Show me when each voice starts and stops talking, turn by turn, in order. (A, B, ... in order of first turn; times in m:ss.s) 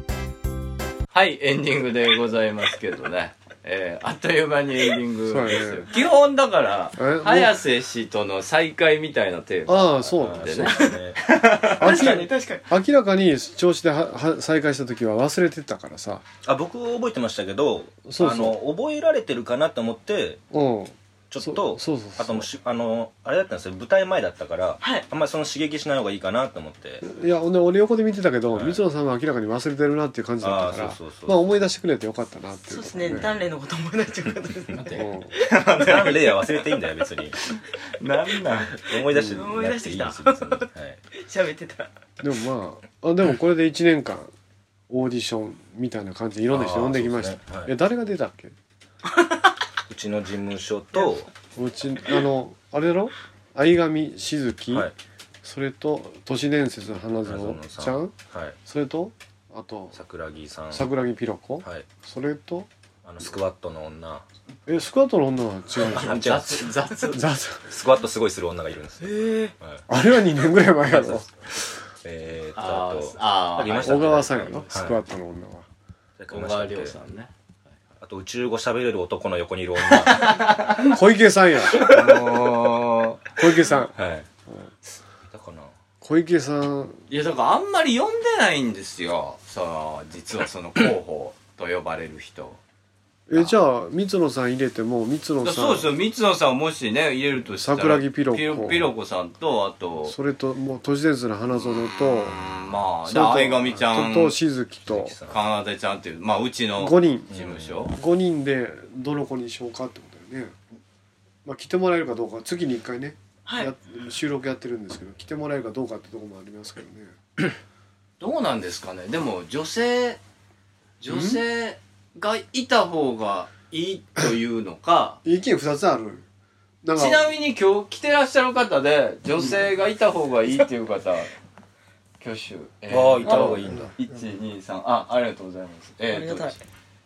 0:01.1-0:11.9 A
0:05.2-0:05.9 B
0:07.0-0:07.6 B
0:09.6-0:10.8 B
0:10.2-0:11.2 C
0:11.6-0:12.6 D
0:11.8-0:16.2 B
0:16.4-0:20.4 C
0:18.0-0:18.6 B
0:20.5-0:22.5 B
0:21.3-0:27.0 C
0:27.0-0:33.4 B
0:28.5-0:28.8 C
0:30.4-0:31.4 C
0:32.7-0:34.9 D
0:34.7-0:36.4 A
0:35.0-0:35.3 B
0:35.7-0:37.4 C
0:38.0-0:38.8 A
0:38.8-0:41.0 C
0:39.1-0:39.4 B
0:39.2-0:41.9 D
0:42.2-0:44.3 B
0:44.9-0:48.5 B
0:46.5-0:47.7 C
0:49.2-0:49.4 D
0:49.9-0:51.3 C
0:51.6-0:54.9 B
0:55.4-1:00.0 B
0:57.2-0:58.6 C
0:59.9-1:00.9 C
1:00.7-1:02.7 B
1:01.6-1:01.9 C
1:03.0-1:04.2 C
1:04.7-1:06.5 B
1:05.9-1:06.7 C
1:05.9-1:07.2 A
1:07.1-1:07.6 B
1:07.7-1:09.8 C
1:09.0-1:09.5 D
1:09.9-1:11.3 B
1:10.9-1:11.4 C
1:12.0-1:15.0 C
1:12.6-1:14.9 A
1:13.6-1:15.6 B
1:16.2-1:17.0 C
1:16.3-1:17.3 A
1:18.0-1:20.4 C
1:20.0-1:20.9 A
1:20.9-1:22.7 B
1:21.7-1:23.4 A
1:23.4-1:23.9 B
1:24.0-1:24.2 C
1:25.3-1:25.7 C
1:26.0-1:27.0 B
1:27.1-1:32.6 A
1:33.3-1:35.9 B
1:35.4-1:40.1 A
1:37.5-1:38.9 B
1:40.0-1:42.4 B
1:42.0-1:44.4 A
1:43.1-1:45.2 B
1:44.9-1:45.4 C
1:45.3-1:47.9 A
1:46.8-1:47.3 B
1:47.3-1:47.8 C
1:47.9-1:50.6 B
1:51.4-1:57.1 B
1:58.2-2:00.2 A
2:01.0-2:05.2 A
2:01.1-2:01.4 B
2:05.2-2:06.2 B
2:06.8-2:07.3 B
2:06.9-2:11.3 A
2:12.2-2:16.6 A
2:12.9-2:13.9 C
2:13.2-2:13.9 B
2:16.1-2:16.6 D